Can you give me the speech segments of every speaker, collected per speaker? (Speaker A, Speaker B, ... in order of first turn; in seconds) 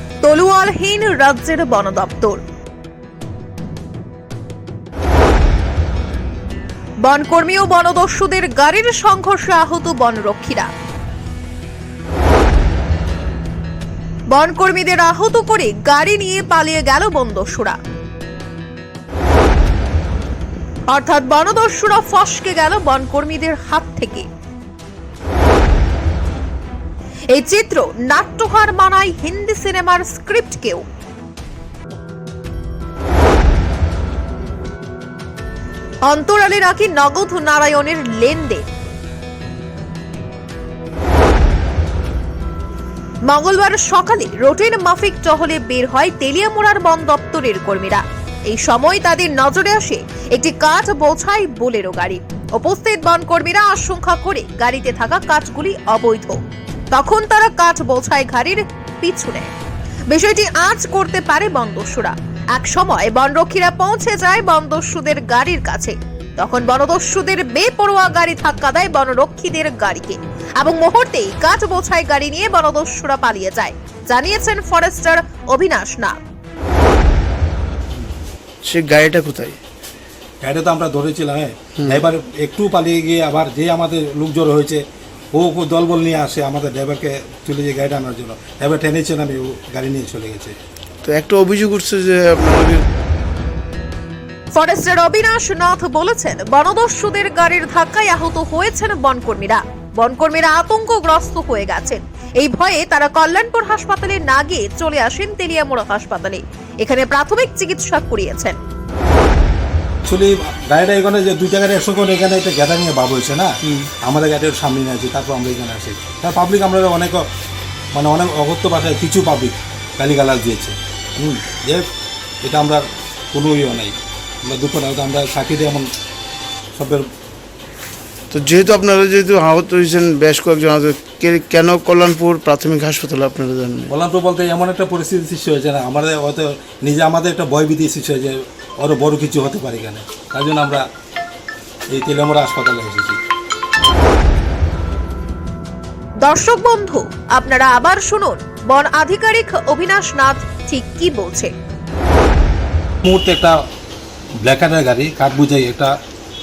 Speaker A: 0.2-2.4, 7.0-10.7, 14.3-17.8, 20.9-24.2, 27.3-30.8, 36.0-38.6, 43.2-56.4, 56.9-59.5, 60.1-76.1, 94.5-108.5, 146.2-151.5
Speaker B: 78.6-79.6, 91.0-92.8, 128.3-133.9
Speaker C: 80.4-84.8, 85.3-90.5, 110.0-113.5, 114.0-117.2, 117.9-121.8, 122.4-122.8, 123.3-125.9, 126.8-127.1, 133.9-140.8, 141.9-143.2, 153.0-153.5, 154.4-155.9